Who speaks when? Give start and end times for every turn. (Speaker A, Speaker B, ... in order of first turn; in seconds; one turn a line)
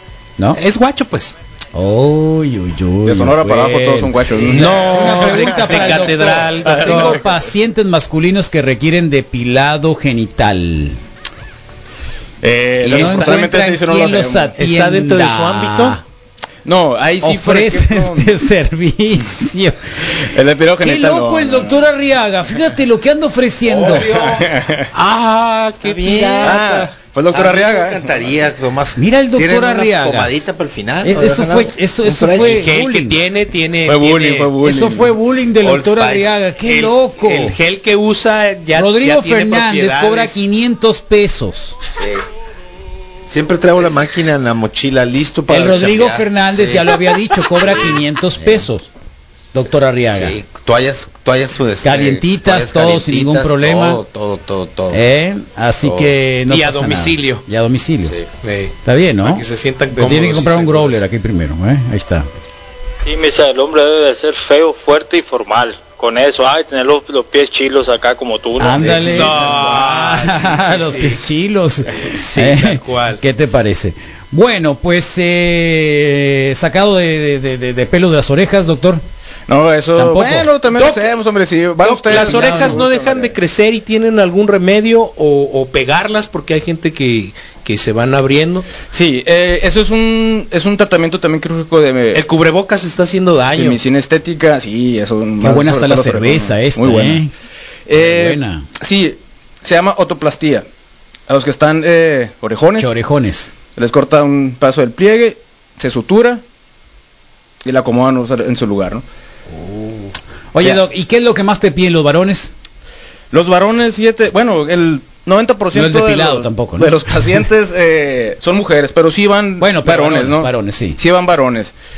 Speaker A: 0.5-1.4
Speaker B: 1.7-11.0
Speaker C: 3.0-7.3
Speaker A: 4.5-7.2
Speaker C: 12.4-14.5
Speaker B: 12.8-16.0
Speaker A: 12.9-13.4
Speaker A: 14.6-16.0
Speaker C: 16.6-18.3
Speaker B: 17.2-24.1
Speaker C: 20.3-21.9
Speaker D: 23.6-24.5
Speaker C: 24.3-24.9
Speaker A: 24.9-26.7
Speaker D: 25.8-32.7
Speaker C: 26.4-28.0
Speaker B: 29.0-30.3
Speaker B: 31.0-33.2
Speaker A: 32.3-34.5
Speaker C: 33.9-35.1
Speaker B: 34.6-37.5
Speaker D: 35.6-36.4
Speaker A: 36.6-40.4
Speaker B: 38.7-41.8
Speaker D: 41.9-42.2
Speaker D: 43.3-48.7
Speaker B: 45.5-48.9
Speaker B: 49.5-50.4
Speaker D: 50.1-55.0
Speaker B: 51.8-54.0
Speaker B: 54.9-58.1
Speaker D: 55.8-56.1
Speaker A: 56.5-57.4
Speaker A: 58.4-61.0
Speaker B: 58.8-62.3
Speaker E: 63.0-69.0
Speaker B: 68.6-79.0
Speaker A: 68.8-71.2
Speaker C: 69.1-69.4
Speaker A: 72.0-73.2
Speaker C: 79.5-83.3
Speaker B: 80.0-80.5
Speaker A: 80.7-81.1
Speaker A: 81.8-88.7
Speaker B: 82.1-82.8
Speaker C: 88.9-92.2
Speaker A: 92.1-93.8
Speaker C: 93.5-97.2
Speaker B: 95.4-97.3
Speaker C: 97.9-100.7
Speaker B: 97.9-98.7
Speaker C: 101.3-102.9
Speaker B: 102.8-103.5
Speaker C: 103.8-106.4
Speaker C: 107.6-109.0
Speaker B: 109.6-110.0
Speaker B: 110.5-112.5
Speaker C: 113.3-121.7
Speaker B: 115.7-117.4
Speaker B: 119.6-121.0